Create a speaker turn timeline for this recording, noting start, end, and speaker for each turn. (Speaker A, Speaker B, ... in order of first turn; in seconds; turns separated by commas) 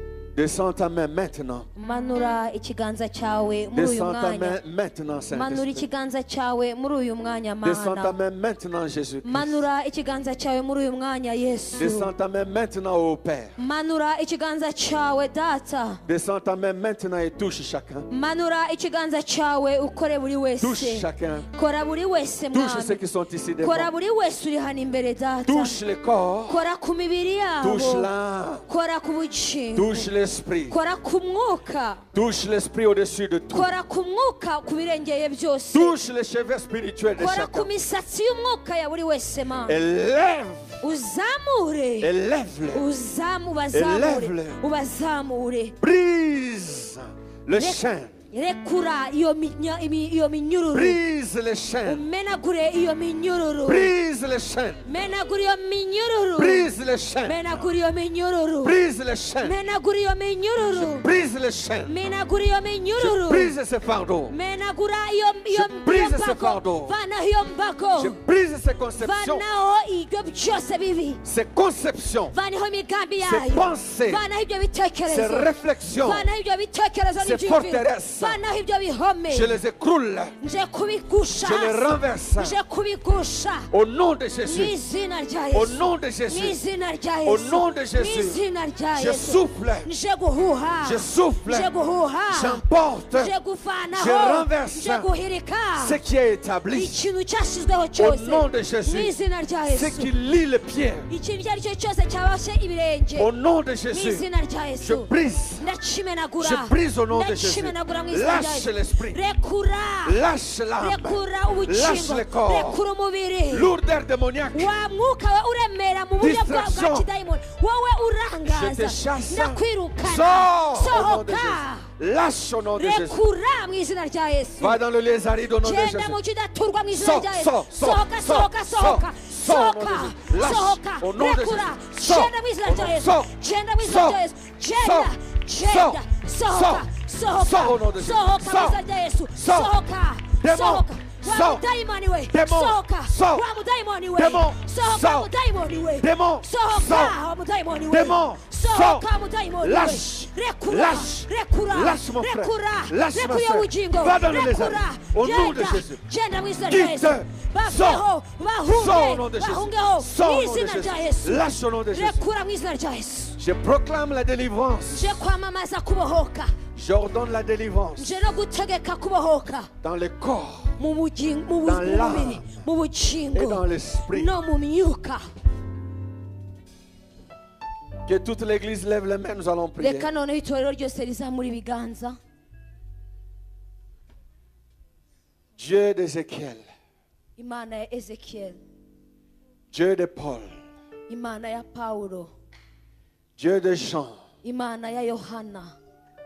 Speaker A: 0.3-1.7, Speaker B: 1.7-4.6, Speaker A: 3.7-5.9, Speaker B: 5.3-8.2, Speaker A: 7.6-9.6, Speaker B: 9.2-12.1, Speaker A: 11.8-13.6, Speaker B: 13.6-16.0, Speaker A: 16.0-18.1, Speaker B: 18.1-23.0, Speaker A: 20.6-21.5, Speaker A: 22.5-23.9, Speaker B: 23.6-25.8, Speaker A: 25.4-26.6, Speaker B: 26.5-28.1, Speaker A: 27.6-28.6, Speaker B: 28.7-30.1, Speaker A: 29.7-30.8, Speaker B: 30.7-32.0, Speaker A: 32.1-33.7, Speaker B: 33.5-35.9, Speaker A: 35.7-37.7, Speaker B: 37.2-39.8, Speaker A: 39.6-40.8, Speaker B: 40.8-42.1, Speaker A: 42.0-42.9, Speaker B: 42.7-45.8, Speaker A: 43.7-44.6, Speaker A: 45.8-48.2, Speaker B: 47.5-51.0, Speaker A: 50.7-52.0, Speaker B: 51.8-53.9, Speaker A: 53.6-54.8, Speaker B: 54.8-56.7, Speaker A: 56.4-57.6, Speaker B: 57.2-58.8, Speaker A: 58.6-59.6, Speaker B: 59.4-61.1, Speaker A: 60.7-61.9, Speaker B: 61.8-63.5, Speaker A: 63.0-64.3, Speaker B: 64.3-68.2, Speaker A: 65.5-67.0, Speaker A: 68.0-69.4, Speaker B: 69.0-71.2, Speaker A: 71.2-72.3, Speaker B: 72.3-79.6, Speaker A: 73.2-74.2, Speaker A: 75.1-76.3, Speaker A: 77.2-78.4, Speaker A: 79.3-80.3, Speaker B: 80.4-83.7, Speaker A: 81.4-82.6, Speaker A: 83.7-84.8, Speaker B: 84.4-96.0, Speaker A: 85.5-86.6, Speaker A: 87.2-88.4, Speaker A: 88.9-89.9, Speaker A: 90.8-91.7, Speaker A: 92.3-93.3, Speaker A: 93.9-95.1, Speaker A: 95.8-97.0, Speaker B: 96.7-100.1, Speaker A: 98.0-99.1, Speaker A: 99.7-101.1, Speaker B: 101.1-103.3, Speaker A: 103.2-104.2, Speaker B: 103.9-110.2, Speaker A: 104.8-105.7, Speaker A: 106.4-109.2, Speaker A: 110.0-112.8, Speaker B: 110.8-113.7, Speaker A: 113.5-114.7, Speaker B: 114.5-121.9, Speaker A: 116.2-117.1, Speaker A: 118.4-123.2, Speaker B: 122.8-124.8, Speaker A: 124.6-126.2, Speaker B: 125.6-163.4, Speaker A: 126.9-134.2, Speaker A: 134.7-138.8, Speaker A: 139.3-139.7, Speaker A: 140.4-141.7, Speaker A: 142.3-143.5, Speaker A: 144.1-145.3, Speaker A: 146.0-147.2, Speaker A: 147.9-149.1, Speaker A: 149.6-156.0, Speaker A: 156.7-158.0, Speaker A: 158.7-162.2, Speaker A: 163.4-165.2, Speaker B: 164.9-166.5, Speaker A: 166.7-168.2, Speaker B: 168.0-169.7, Speaker A: 169.8-170.7, Speaker B: 170.8-175.2, Speaker A: 171.6-172.6, Speaker A: 173.3-174.3, Speaker A: 178.1-180.1, Speaker B: 179.8-182.2, Speaker A: 185.6-186.6, Speaker B: 187.4-188.6, Speaker A: 189.7-190.6, Speaker B: 191.1-192.3, Speaker A: 193.4-194.2, Speaker B: 194.4-195.8